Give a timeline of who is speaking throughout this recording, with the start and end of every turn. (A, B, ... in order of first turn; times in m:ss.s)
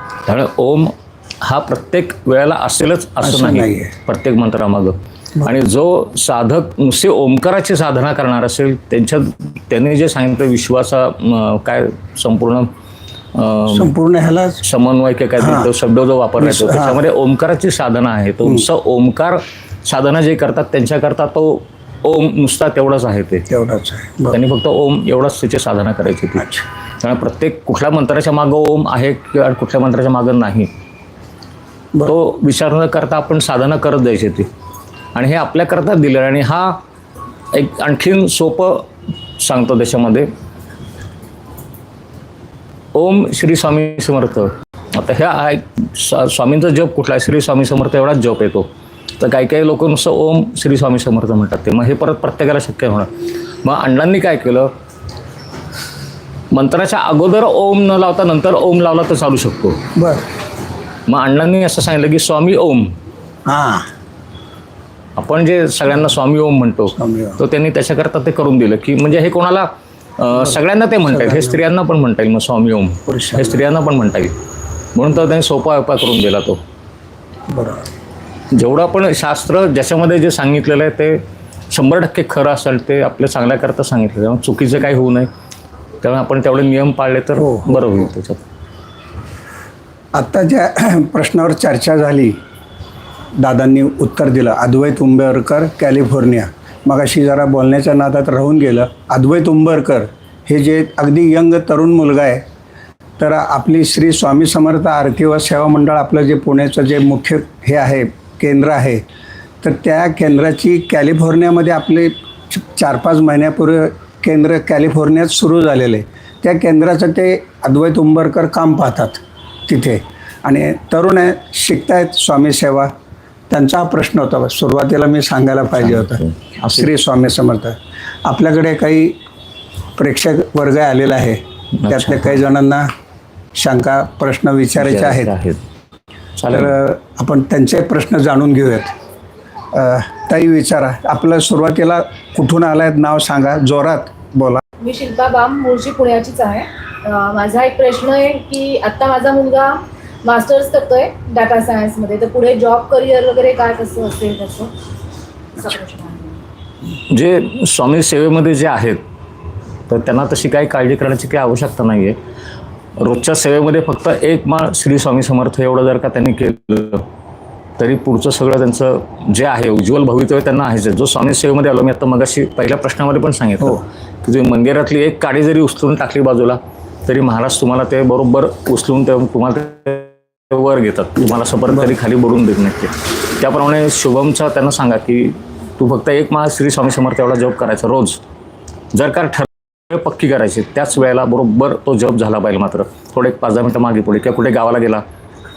0:00.3-0:12.7 A
0:03.2-0:03.9 B
0:13.3-0:13.9 A
0:13.7-0:14.6 B
0:14.6-0:23.5 A
0:15.4-0:15.7 B
0:16.4-0:17.0 B
0:23.5-0:24.4 B
0:24.3-0:30.7 A
0:32.0-0:34.5 A
0:35.1-0:36.8 A
0:37.5-0:38.9 A
0:39.4-0:40.3 A
0:42.9-0:53.1 A
0:53.6-0:54.7 A
0:56.5-0:59.8 A
1:00.0-1:00.2 B
1:01.1-1:02.9 A
1:03.5-1:03.9 B
1:05.2-1:14.3 A
1:07.0-1:07.4 B
1:11.1-1:11.6 B
1:13.1-1:13.6 B
1:15.0-1:16.6 A
1:17.5-1:17.9 B
1:18.5-1:25.3 A
1:26.0-1:28.4 A
1:27.4-1:27.8 B
1:30.1-1:32.4 B
1:33.4-1:42.4 B
1:43.2-1:49.0 B
1:49.6-2:02.9 B
2:03.5-2:06.2 B
2:05.8-2:06.9 A
2:06.7-2:09.2 B
2:10.0-2:12.9 B
2:11.8-2:12.4 A
2:13.6-2:15.3 B
2:14.8-2:15.6 A
2:16.4-2:16.8 A
2:16.5-2:18.9 B
2:19.7-2:24.6 B
2:24.8-2:34.7 C
2:35.6-2:36.4 C
2:37.1-2:39.0 A
2:39.9-2:42.2 A
2:43.0-2:47.0 A
2:47.8-3:08.2 A
3:01.7-3:02.0 B
3:08.9-3:15.0 A